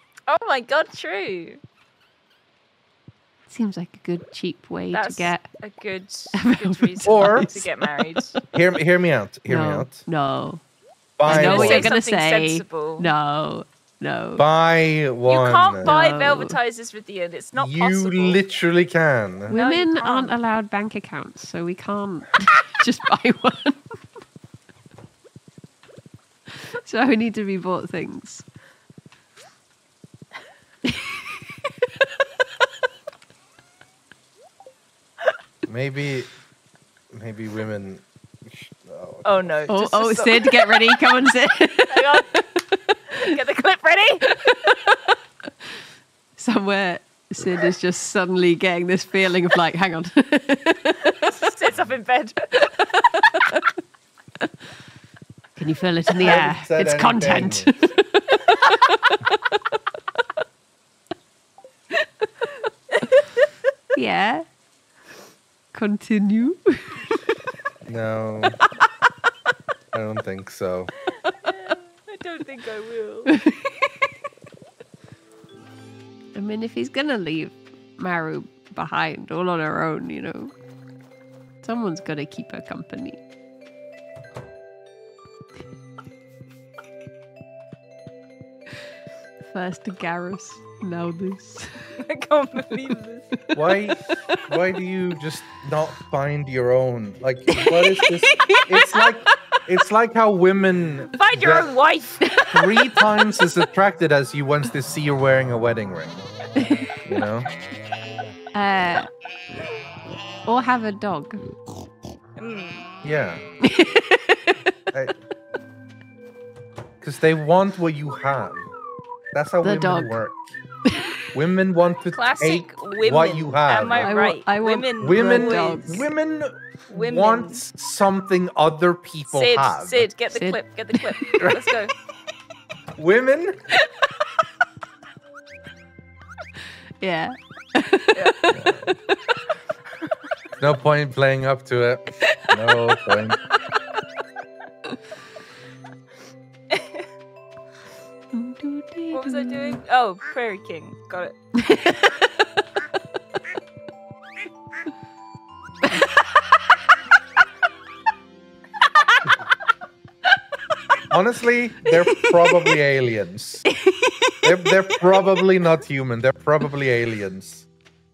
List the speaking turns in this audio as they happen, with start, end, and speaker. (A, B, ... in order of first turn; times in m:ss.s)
0:00.3-0:01.6 A
0:03.5-0:05.5 B
0:04.9-0:08.3 A
0:06.3-0:08.4 B
0:07.0-0:07.6 C
0:08.5-0:10.0 C
0:09.5-0:10.6 B
0:11.2-0:11.9 C
0:11.3-0:14.5 B
0:11.3-0:13.1 A
0:14.4-0:15.9 C
0:15.3-0:18.4 A
0:15.8-0:16.6 B
0:17.6-0:19.5 C
0:19.5-0:23.9 B
0:19.5-0:20.4 A
0:26.7-0:28.5 B
0:35.7-0:36.3 C
0:37.1-0:39.6 C
0:39.2-0:41.0 A
0:39.7-0:43.2 B
0:41.9-0:42.3 A
0:43.2-0:44.3 A
0:44.5-0:45.0 B
0:46.4-0:51.1 B
0:51.2-0:52.7 A
0:52.9-0:53.6 B
0:55.6-0:58.7 B
0:56.2-0:57.7 C
1:03.9-1:04.4 B
1:05.7-1:07.0 B
1:07.9-1:08.6 C
1:09.9-1:10.9 C
1:11.4-1:13.3 A
1:13.3-1:13.8 B
1:16.3-1:20.5 B
1:21.6-1:23.2 B
1:29.5-1:31.9 B
1:32.0-1:33.3 A
1:33.5-1:41.7 C
1:37.5-1:39.0 B
1:41.1-1:42.2 A
1:42.3-1:43.0 B
1:42.5-1:46.2 C
1:46.6-1:47.0 B
1:47.0-1:47.5 C
1:48.5-1:49.1 B
1:50.5-1:51.4 B
1:52.4-1:52.9 A
1:53.0-1:53.4 C
1:53.6-1:54.6 B
1:57.0-1:58.7 C
1:59.3-2:00.6 C
1:59.6-2:00.2 B
2:01.3-2:04.1 C
2:02.1-2:06.1 A
2:04.0-2:06.1 B
2:05.0-2:10.1 C
2:06.9-2:07.6 A
2:09.3-2:11.9 A
2:10.3-2:11.4 B
2:13.0-2:13.6 C
2:17.0-2:18.8 B
2:18.5-2:18.9 C
2:20.6-2:23.4 C
2:26.7-2:27.0 A
2:28.3-2:29.8 B
2:29.1-2:31.4 A
2:31.6-2:32.2 B
2:41.1-2:43.7 C
2:43.8-2:44.7 B
2:44.4-2:47.7 C